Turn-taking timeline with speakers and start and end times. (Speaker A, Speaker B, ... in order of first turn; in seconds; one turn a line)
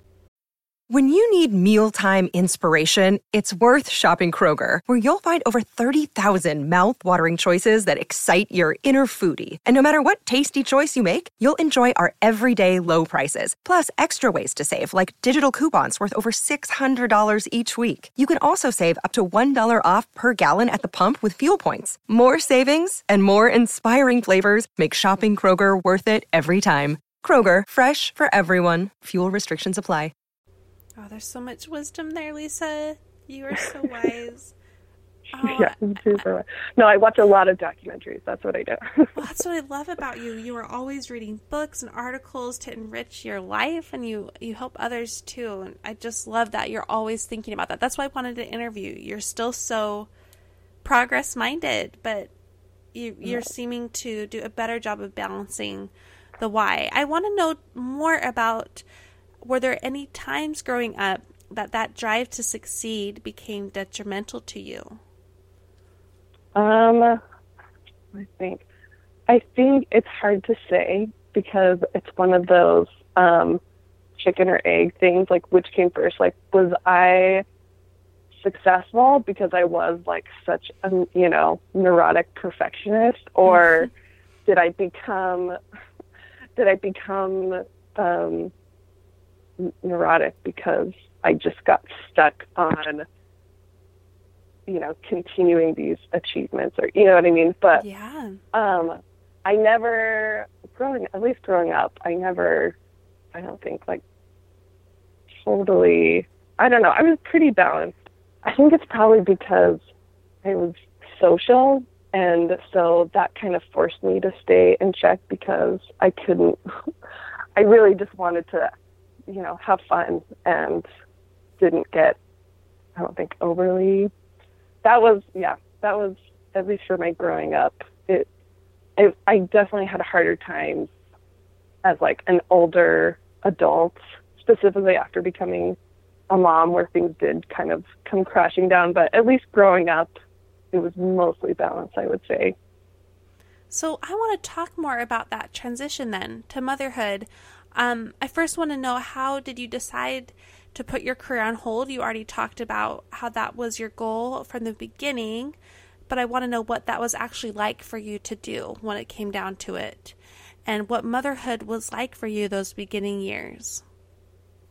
Speaker A: 0.9-30.1
Speaker B: 31.0-34.5
Speaker B: 35.3-36.2
Speaker C: 35.4-39.2
Speaker B: 39.1-50.1
Speaker B: 50.8-52.3
Speaker B: 52.9-58.8
Speaker B: 59.4-65.0
Speaker C: 66.5-67.2
Speaker C: 68.1-68.6
Speaker C: 69.3-73.6
Speaker C: 74.2-77.4
Speaker C: 78.4-83.9
Speaker B: 83.5-83.8
Speaker C: 84.5-85.6
Speaker C: 86.6-88.5
Speaker C: 89.6-93.1
Speaker C: 94.7-97.8
Speaker B: 97.8-98.4
Speaker C: 98.5-102.8
Speaker C: 103.3-104.0
Speaker C: 105.3-109.8
Speaker C: 110.4-116.9
Speaker C: 117.5-118.7
Speaker C: 119.3-120.8
Speaker C: 121.6-122.2
Speaker C: 123.0-124.1
Speaker C: 124.8-128.3
Speaker C: 129.0-130.9
Speaker C: 131.8-135.8
Speaker C: 136.3-140.1
Speaker C: 140.7-142.6
Speaker B: 143.7-155.6
Speaker B: 156.1-163.8